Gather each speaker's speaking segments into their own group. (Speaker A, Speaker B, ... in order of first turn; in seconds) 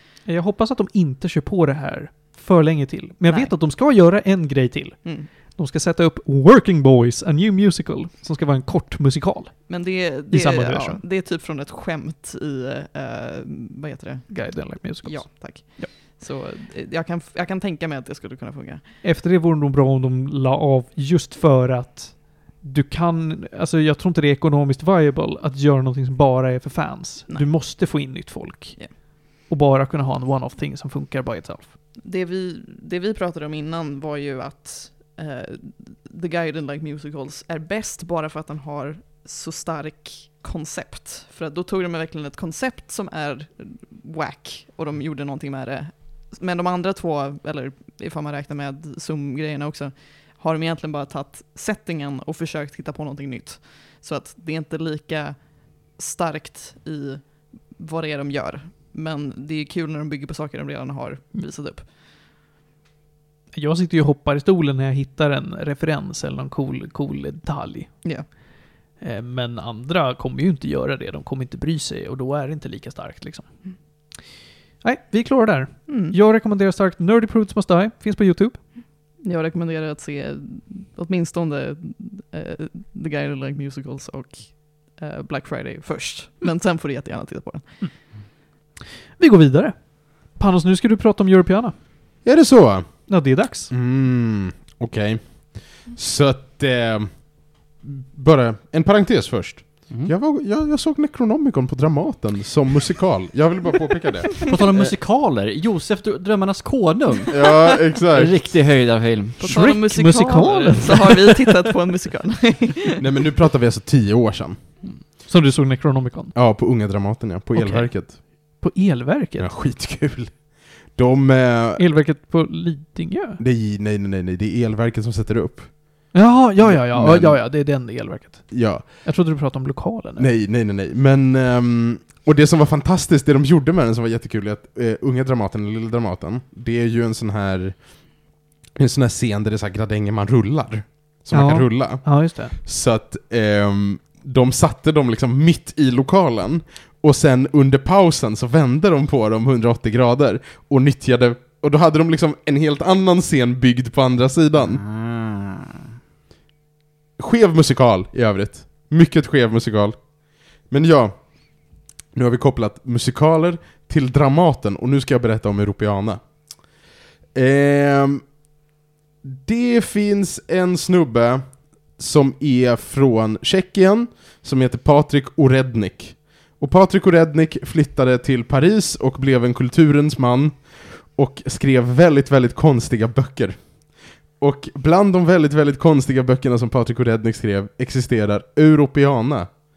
Speaker A: 0.2-9.8, 10.3-11.0, 14.3-15.9, 19.0-31.7, 63.5-67.9, 69.0-73.5, 74.8-78.6, 89.2-91.7, 93.1-93.7, 109.4-111.5, 115.3-116.3, 117.5-119.5, 121.8-123.4, 126.1-130.3, 141.3-142.6
Speaker B: 3.3-3.5, 9.7-18.8, 32.0-61.8, 75.9-76.2, 79.2-87.7, 109.4-113.0
Speaker C: 92.2-93.1, 93.7-104.9, 107.3-108.6, 113.0-114.6, 116.3-118.2, 119.4-121.8, 123.4-127.4, 128.5-128.8, 130.2-137.8, 138.8-154.8, 157.2-160.1, 160.7-161.4, 162.1-166.2, 167.3-168.2, 169.2-183.6, 184.4-189.6
Speaker D: 104.5-107.3, 108.1-109.5, 154.6-155.8